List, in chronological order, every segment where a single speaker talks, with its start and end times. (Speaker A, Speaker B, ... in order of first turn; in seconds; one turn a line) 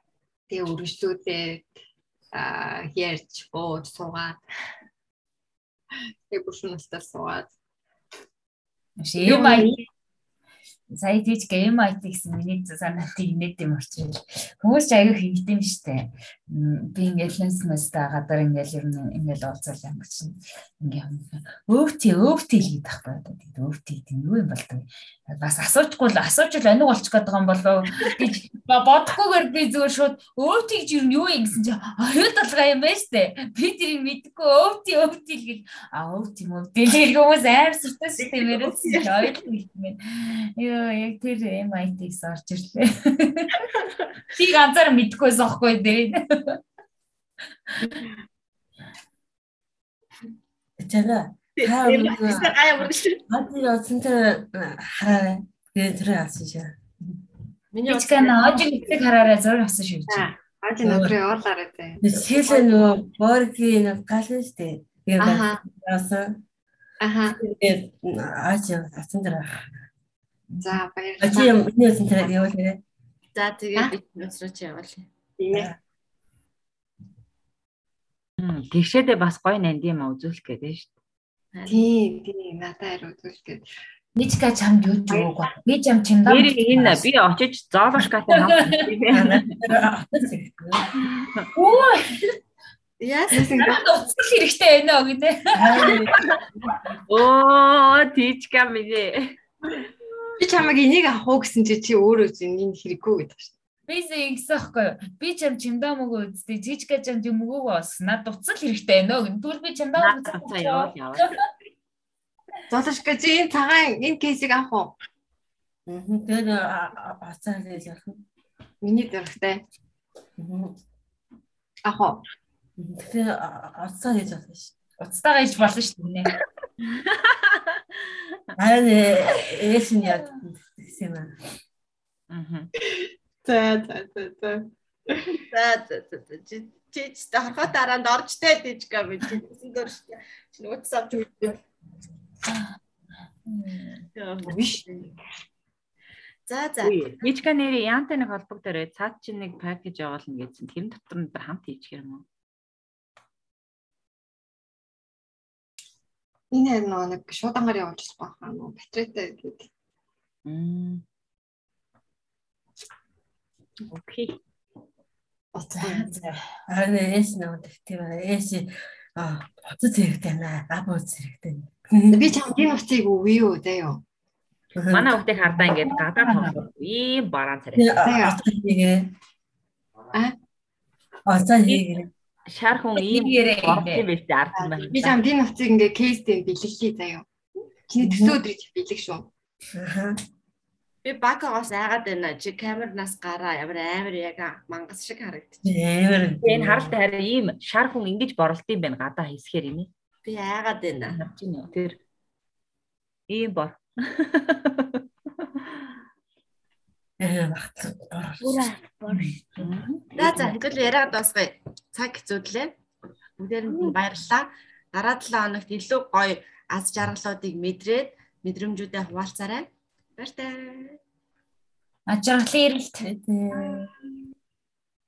Speaker A: 0.5-1.7
Speaker A: 2.3-4.4
Speaker A: 6.3-7.5
Speaker B: 9.0-9.8
Speaker A: 9.2-9.8
Speaker B: 10.9-43.6
Speaker C: 38.2-39.4
Speaker B: 44.3-46.6
Speaker D: 50.8-52.5
Speaker C: 51.6-53.2
Speaker D: 53.3-56.8
Speaker C: 57.7-59.0
Speaker B: 57.9-60.3
Speaker A: 60.1-63.0
Speaker D: 60.8-61.2
Speaker D: 62.0-66.4
Speaker A: 65.2-65.6
Speaker A: 67.0-67.4
Speaker D: 67.2-69.7
Speaker A: 70.6-71.5
Speaker D: 71.2-72.8
Speaker C: 73.3-75.1
Speaker A: 75.4-75.7
Speaker D: 75.5-75.8
Speaker E: 78.4-80.9
Speaker C: 81.5-81.9
Speaker A: 81.7-83.7
Speaker B: 84.2-87.0
Speaker A: 85.1-85.5
Speaker E: 86.3-89.5
Speaker B: 88.4-88.9
Speaker D: 89.1-91.0
Speaker E: 91.0-91.5
Speaker B: 91.5-92.2
Speaker C: 93.0-93.7
Speaker A: 93.3-93.8
Speaker B: 93.6-96.0
Speaker D: 95.5-96.1
Speaker E: 97.1-99.4
Speaker A: 100.4-103.5
Speaker B: 103.9-111.4
Speaker E: 110.0-111.4
Speaker A: 112.7-115.0
Speaker D: 115.9-118.2
Speaker A: 118.8-119.6
Speaker D: 120.4-120.8
Speaker A: 121.8-122.2
Speaker D: 122.8-124.7
Speaker B: 125.0-126.3
Speaker E: 127.0-127.8
Speaker D: 128.6-131.4
Speaker E: 132.3-132.7
Speaker A: 133.0-135.4
Speaker C: 135.3-141.6
Speaker B: 143.5-144.0
Speaker C: 144.1-145.0
Speaker A: 144.4-145.2
Speaker C: 146.5-147.2
Speaker E: 146.8-152.2
Speaker A: 156.5-159.7
Speaker E: 160.4-161.0
Speaker E: 163.9-164.4
Speaker A: 165.5-166.1
Speaker D: 165.8-172.4
Speaker A: 172.1-174.0
Speaker D: 174.7-175.2
Speaker E: 174.9-177.9
Speaker B: 175.8-176.6
Speaker D: 177.8-179.1
Speaker A: 178.0-178.4
Speaker D: 181.3-182.1
Speaker E: 181.7-185.2
Speaker B: 182.9-184.1
Speaker A: 184.6-187.3
Speaker A: 187.9-189.3
Speaker D: 188.0-188.4
Speaker D: 189.7-190.2
Speaker C: 191.0-195.7
Speaker D: 195.6-196.9
Speaker E: 196.4-199.9
Speaker C: 200.2-201.2
Speaker E: 201.1-202.0
Speaker E: 203.3-205.0
Speaker D: 207.2-208.8
Speaker B: 209.1-209.4
Speaker E: 209.1-210.6
Speaker C: 210.2-212.8
Speaker C: 213.4-221.0
Speaker B: 222.1-223.1
Speaker D: 223.0-223.9